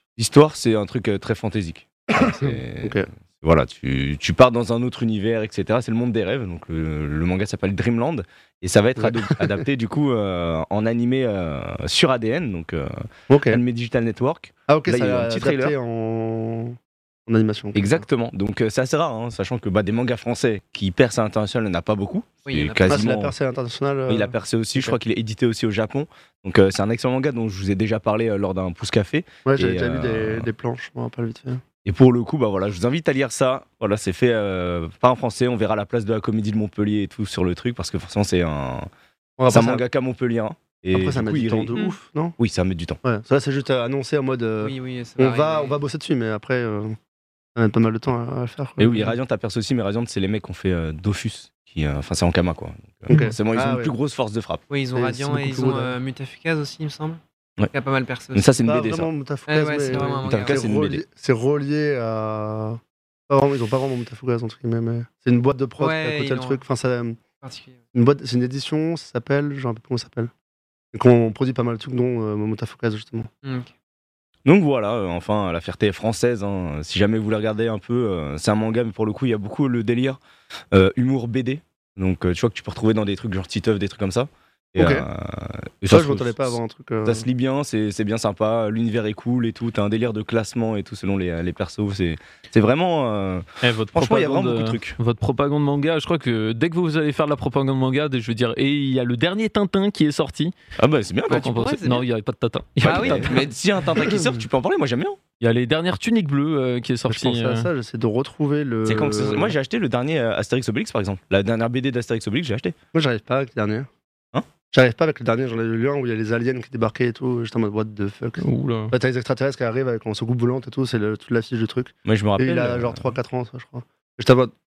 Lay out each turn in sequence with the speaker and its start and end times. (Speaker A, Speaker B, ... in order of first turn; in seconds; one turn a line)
Speaker A: 0.2-15.7
Speaker B: 2.1-3.1
Speaker B: 9.0-9.6
Speaker B: 13.3-13.6
Speaker B: 14.7-16.8
Speaker B: 17.3-17.9
Speaker A: 17.7-23.3
Speaker C: 22.4-23.0
Speaker B: 22.9-25.0
Speaker A: 24.1-30.5
Speaker B: 29.4-31.6
Speaker A: 31.8-38.9
Speaker B: 39.4-39.8
Speaker A: 39.5-41.7
Speaker B: 40.9-42.4
Speaker A: 42.4-43.0
Speaker B: 43.0-47.0
Speaker C: 44.6-45.8
Speaker B: 47.5-49.1
Speaker A: 48.8-54.6
Speaker B: 53.1-53.9
Speaker C: 54.7-58.5
Speaker B: 54.9-56.0
Speaker A: 58.3-59.1
Speaker B: 58.6-67.2
Speaker C: 59.5-60.7
Speaker A: 60.2-61.0
Speaker C: 65.8-66.6
Speaker C: 67.4-67.8
Speaker B: 67.9-70.3
Speaker B: 70.9-73.3
Speaker C: 73.4-73.7
Speaker A: 74.4-80.2
Speaker A: 80.7-95.0
Speaker B: 84.8-85.0
Speaker B: 85.9-87.2
Speaker D: 93.6-100.5
Speaker A: 100.8-101.5
Speaker C: 101.3-102.1
Speaker D: 101.3-103.4
Speaker C: 102.8-103.3
Speaker A: 102.8-105.2
Speaker D: 105.4-107.7
Speaker B: 107.1-109.5
Speaker A: 108.8-112.7
Speaker B: 112.9-113.9
Speaker B: 114.7-124.5
Speaker D: 118.4-118.9
Speaker A: 122.0-123.1